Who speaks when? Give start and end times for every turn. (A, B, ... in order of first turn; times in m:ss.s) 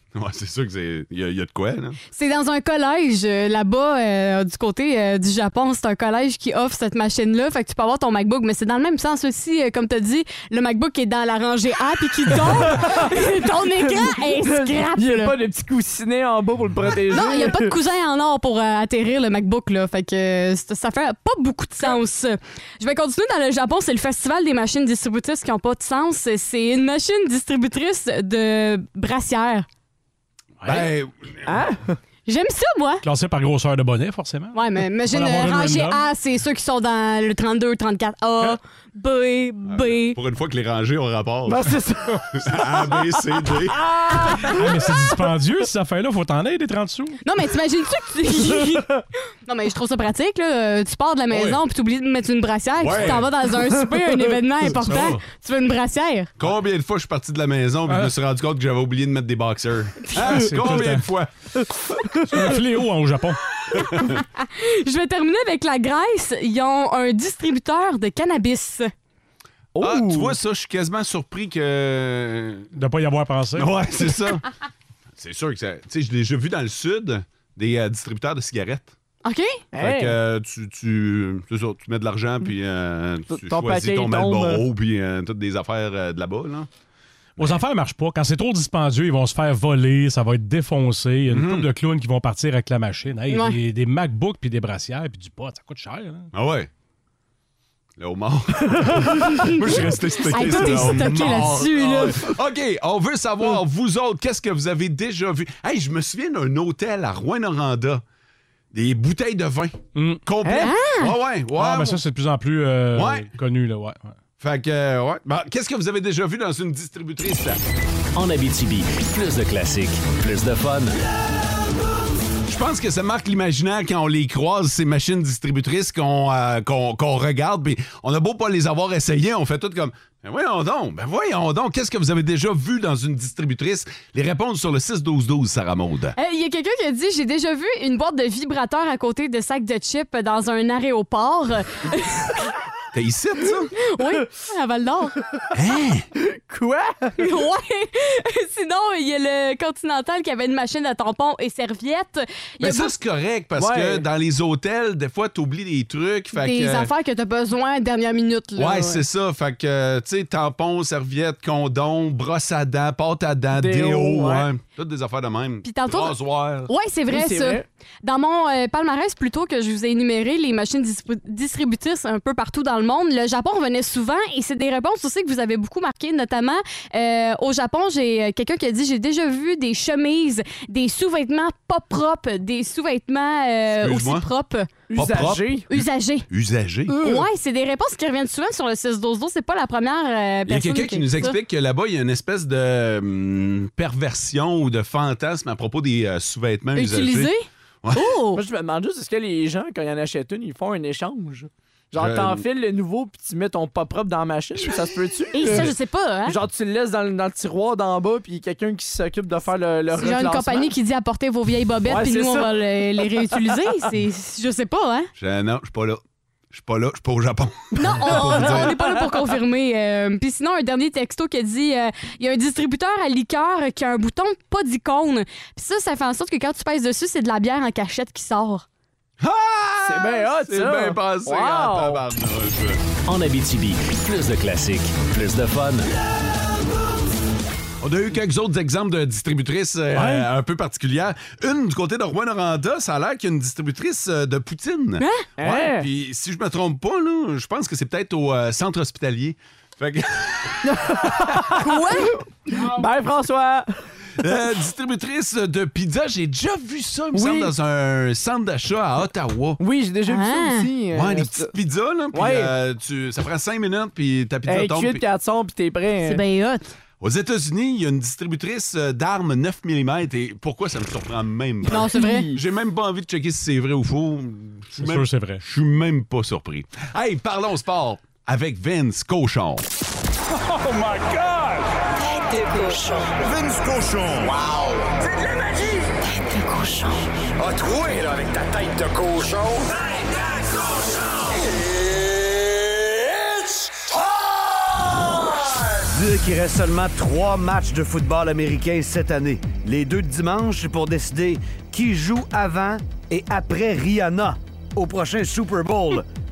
0:00.1-0:02.0 A
0:02.1-0:15.4 B
0:12.6-0:13.3 C
0:13.8-0:17.7 C
0:17.1-0:29.7 B
0:30.6-0:30.9 D
0:30.6-0:31.6 A
0:31.5-0:32.0 C
0:32.3-0:33.0 B
0:33.0-0:36.0 D
0:34.5-0:40.2 B
0:39.7-0:41.8 A
0:41.5-0:42.8 C
0:42.4-0:43.8 A
0:43.6-0:44.8 C
0:44.5-0:47.2 D
0:47.2-0:48.9 B
0:49.4-0:56.3 B
0:51.3-0:51.6 A
0:52.8-0:53.3 A
0:54.8-0:55.2 D
0:56.4-1:01.3 A
0:57.9-0:58.1 D
1:00.2-1:01.1 D
1:02.3-1:03.4 D
1:04.2-1:08.9 B
1:09.8-1:10.4 C
1:09.8-1:12.7 A
1:12.7-1:13.7 D
1:13.6-1:14.5 A
1:15.2-1:18.9 A
1:19.2-1:19.6 B
1:19.7-1:20.2 C
1:19.8-1:26.7 A
1:23.3-1:24.7 C
1:27.4-1:36.3 D
1:31.3-1:31.7 A
1:33.3-1:33.6 B
1:36.3-1:36.7 A
1:38.0-1:48.0 A
1:39.3-1:39.6 B
1:40.2-1:42.2 B
1:48.7-1:52.0 A
1:50.0-1:50.2 D
1:50.4-1:50.7 C
1:50.6-1:51.2 B
1:51.6-1:54.1 D
1:53.0-1:53.3 A
1:54.4-1:57.6 A
1:58.2-2:00.9 E
2:02.5-2:16.2 A
2:16.2-2:22.4 B
2:22.9-2:23.7 A
2:23.9-2:25.2 B
2:25.5-2:26.1 A
2:26.2-2:27.2 C
2:27.2-2:32.9 B
2:32.6-2:36.9 A
2:33.6-2:34.1 C
2:36.3-2:39.0 B
2:38.6-2:46.7 A
2:43.5-2:44.5 C
2:45.6-2:46.2 B
2:46.7-3:04.7 B
2:47.1-2:47.6 C
3:03.8-3:04.3 A
3:04.9-3:05.7 C
3:05.0-3:07.0 A
3:05.7-3:06.3 B
3:06.9-3:11.4 B
3:06.9-3:07.2 C
3:10.5-3:17.3 A
3:16.8-3:18.4 B
3:18.4-3:25.7 C
3:21.9-3:22.4 A
3:25.3-3:26.4 B
3:25.4-3:25.7 A
3:26.3-3:30.7 C
3:29.9-3:35.1 B
3:31.9-3:32.5 C
3:35.2-3:36.0 A
3:36.5-3:38.8 A
3:37.8-3:48.7 B
3:49.2-3:52.8 A
3:49.8-3:52.0 C
3:53.1-3:55.9 E
3:57.8-4:10.6 A
3:59.9-4:00.3 D
4:05.0-4:05.2 B
4:05.4-4:05.9 C
4:10.6-4:13.8 C
4:11.6-4:12.2 B
4:14.2-4:19.6 A
4:17.2-4:17.5 C
4:19.6-4:21.5 C
4:20.1-4:20.7 B
4:20.9-4:25.0 A
4:22.1-4:22.5 C
4:24.5-4:26.2 C
4:26.0-4:26.7 B
4:27.0-4:39.6 A
4:31.6-4:32.3 B
4:31.9-4:32.4 C
4:34.8-4:35.4 D
4:40.9-4:41.4 A
4:42.0-4:43.3 F
4:45.4-4:47.2 F
4:55.9-5:06.1 G